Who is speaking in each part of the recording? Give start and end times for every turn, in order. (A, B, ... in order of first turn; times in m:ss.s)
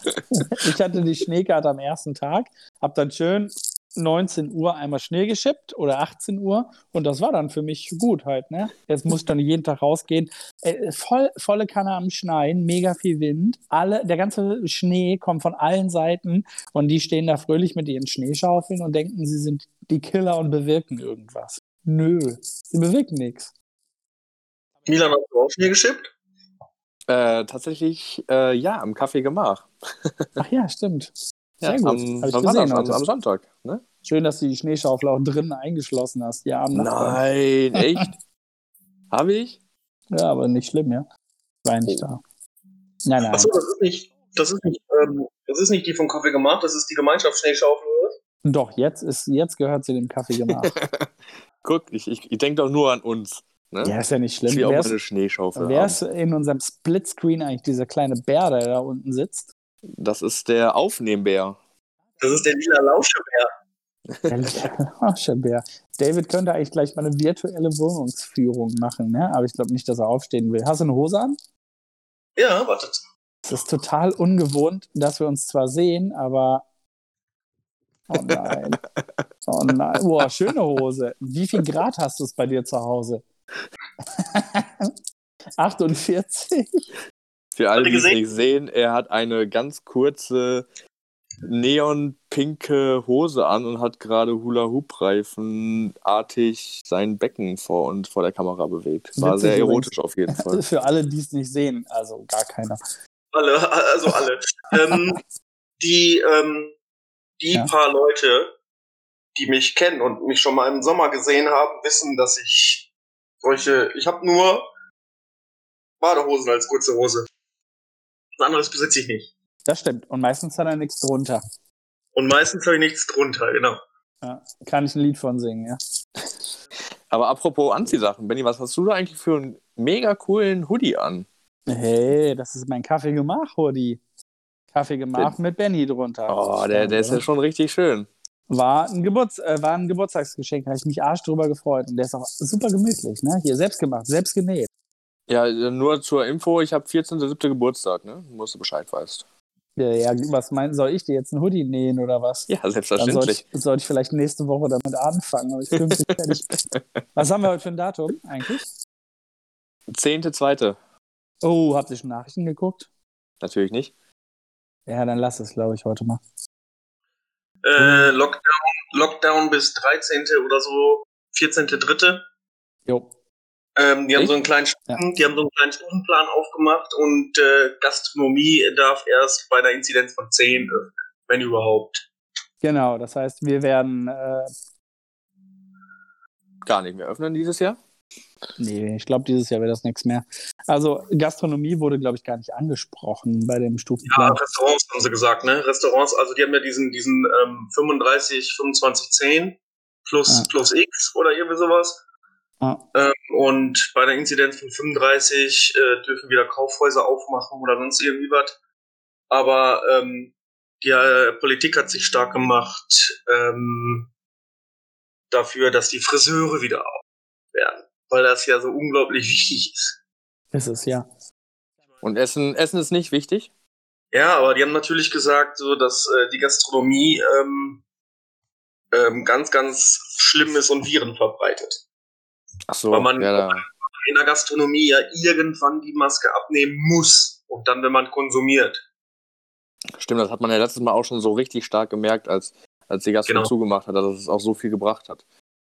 0:00.3-0:23.5 A
0:24.9-0:26.1 B
0:27.1-0:30.3 C
0:30.4-0:33.0 A
0:31.6-0:33.8 C
0:34.0-0:37.2 A
0:36.7-0:38.1 C
0:37.8-0:38.0 A
0:39.1-0:39.6 C
0:40.1-0:41.1 A
0:41.6-0:42.2 A
0:43.0-0:43.5 A
0:43.2-0:48.2 B
0:48.4-0:50.8 A
0:50.5-0:54.0 C
0:53.8-0:55.0 A
0:54.5-0:56.0 C
0:55.6-0:59.5 A
0:59.9-1:01.6 C
1:02.2-1:03.5 B
1:04.1-1:04.4 C
1:04.3-1:11.4 A
1:12.4-1:13.0 B
1:13.5-1:16.6 A
1:18.1-1:18.8 A
1:18.2-1:18.6 C
1:19.5-1:23.2 A
1:24.2-1:24.9 A
1:25.6-1:26.9 A
1:27.6-1:30.7 C
1:27.8-1:28.2 B
1:31.4-1:40.6 C
1:39.2-1:42.8 A
1:43.3-1:45.2 B
1:45.8-1:46.8 B
1:47.4-1:48.5 B
1:49.4-1:52.9 B
1:53.4-1:54.6 B
1:56.0-1:57.3 B
1:58.4-1:59.3 B
1:59.7-2:01.4 A
2:02.2-2:03.8 B
2:04.2-2:05.8 A
2:07.1-2:11.3 C
2:11.7-2:14.0 A
2:14.8-2:17.2 A
2:16.3-2:18.1 C
2:18.5-2:24.7 A
2:25.3-2:29.2 C
2:29.8-2:36.6 A
2:32.5-2:33.4 C
2:35.8-2:36.8 C
2:37.2-2:38.7 A
2:39.9-2:40.8 C
2:41.4-2:42.9 A
2:43.4-2:43.9 C
2:44.9-2:46.2 A
2:47.6-2:52.2 B
2:47.8-2:48.1 C
2:53.8-3:02.0 B
3:02.6-3:04.5 A
3:06.6-3:07.8 C
3:08.6-3:14.4 A
3:14.1-3:22.0 B
3:22.9-3:28.6 B
3:29.3-3:34.1 B
3:35.3-3:37.0 B
3:37.5-3:40.0 B
3:40.5-3:41.1 A
3:42.0-3:43.5 C
3:44.1-3:47.8 B
3:48.9-3:51.8 B
3:52.7-3:53.6 C
3:52.9-3:58.8 B
4:00.0-4:05.2 C
4:03.3-4:03.5 B